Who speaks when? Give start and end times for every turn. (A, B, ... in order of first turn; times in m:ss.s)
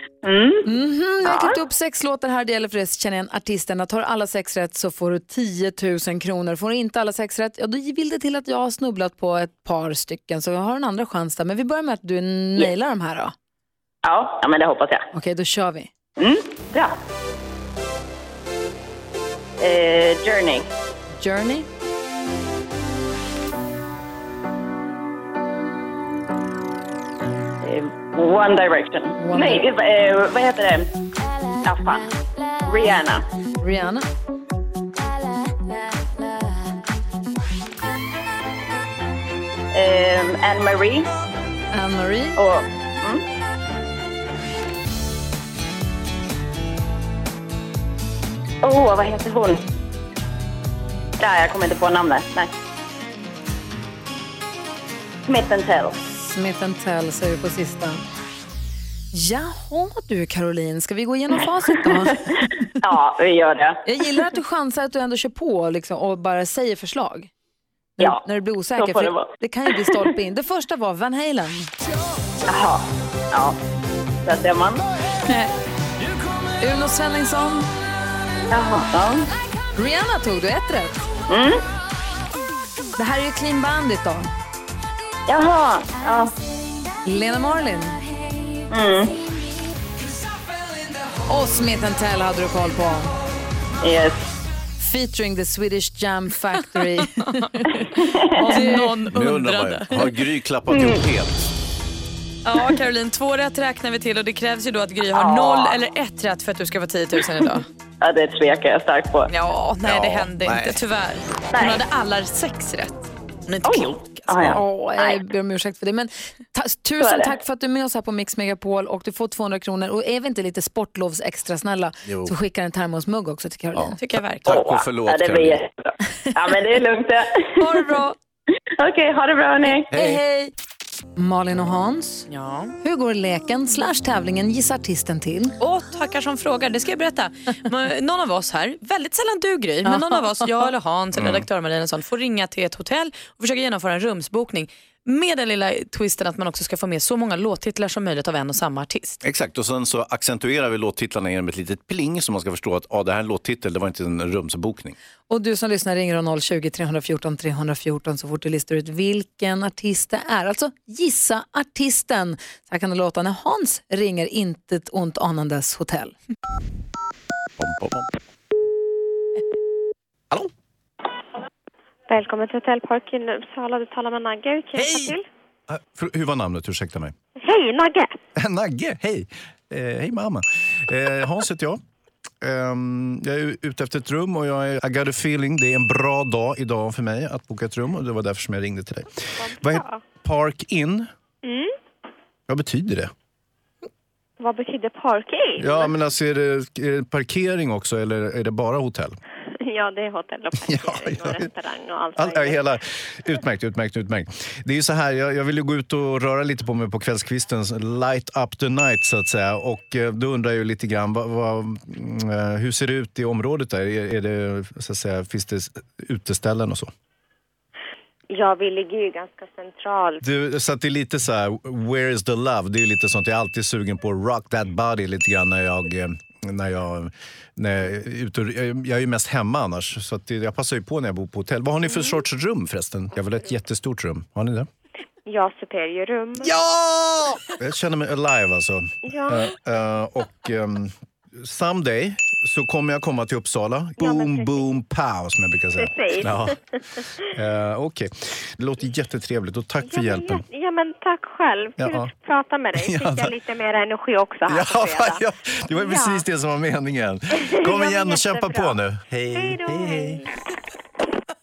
0:00.2-0:00.7 A
0:00.6-0:13.3 B
0:01.2-0:01.5 A
0:14.0-0:15.0 A
0:15.1-0:15.9 B
0:16.2-0:16.9 A
0:19.6-0:20.6 A
0:21.2-0:21.6 B
0:27.6-0:30.9 A
0:29.2-0:29.7 B
0:31.6-0:32.1 A
0:32.6-0:33.2 A
0:33.6-0:34.0 B
0:39.7-0:41.1 A
0:41.7-0:42.4 B
0:42.4-0:43.2 A
0:48.6-0:49.6 A
0:51.2-0:52.5 A
0:55.3-0:56.0 A
0:56.2-0:58.0 B
0:59.1-1:02.5 B
1:01.9-1:02.2 A
1:02.8-1:03.8 A
1:03.8-1:07.3 B
1:08.0-1:11.7 B
1:08.8-1:10.0 A
1:12.5-1:13.6 A
1:14.2-1:14.8 A
1:16.6-1:17.7 B
1:18.5-1:19.3 A
1:19.7-1:21.1 B
1:21.3-1:21.6 A
1:23.0-1:24.3 B
1:25.3-1:26.3 A
1:27.0-1:28.0 B
1:28.7-1:29.1 A
1:31.3-1:33.1 B
1:33.8-1:34.2 A
1:34.8-1:37.7 B
1:37.2-1:40.2 C
1:38.0-1:38.7 A
1:38.4-1:39.0 B
1:39.1-1:41.5 D
1:40.7-1:41.0 A
1:42.4-1:47.7 C
1:45.1-1:45.8 A
1:48.0-1:49.3 A
1:49.3-1:54.4 C
1:49.8-1:50.8 D
1:51.5-1:51.8 A
1:53.6-1:55.2 A
1:54.5-2:04.0 B
1:57.0-1:57.3 A
2:02.0-2:02.3 D
2:03.7-2:05.6 D
2:04.0-2:04.6 C
2:04.5-2:07.8 A
2:07.6-2:08.1 B
2:08.8-2:09.9 A
2:09.9-2:10.2 D
2:09.9-2:10.5 B
2:11.2-2:12.3 B
2:12.3-2:12.7 C
2:12.8-2:15.6 B
2:15.6-2:29.2 C
2:21.1-2:21.4 D
2:29.2-2:34.9 D
2:35.3-2:46.1 B
2:47.6-2:48.1 D
2:52.1-2:55.2 E
2:54.8-2:55.1 D
2:55.7-2:57.1 D
2:57.4-2:58.2 E
2:58.4-3:01.8 D
3:02.4-3:11.1 D
3:09.4-3:10.0 E
3:11.4-3:11.7 E
3:12.5-3:13.1 D
3:14.4-3:15.9 E
3:15.6-3:19.2 D
3:19.6-3:22.6 E
3:20.6-3:21.5 D
3:22.2-3:36.9 D
3:38.3-3:40.2 E
3:40.2-3:54.7 D
3:51.9-3:52.2 E
3:55.2-3:56.5 E
3:56.4-4:06.6 D
3:59.0-3:59.5 E
4:04.0-4:04.7 E
4:05.8-4:06.6 E
4:07.3-4:10.4 D
4:09.8-4:16.2 E
4:11.8-4:12.1 D
4:12.8-4:13.3 D
4:14.5-4:20.2 D
4:17.3-4:18.8 E
4:19.3-4:20.2 E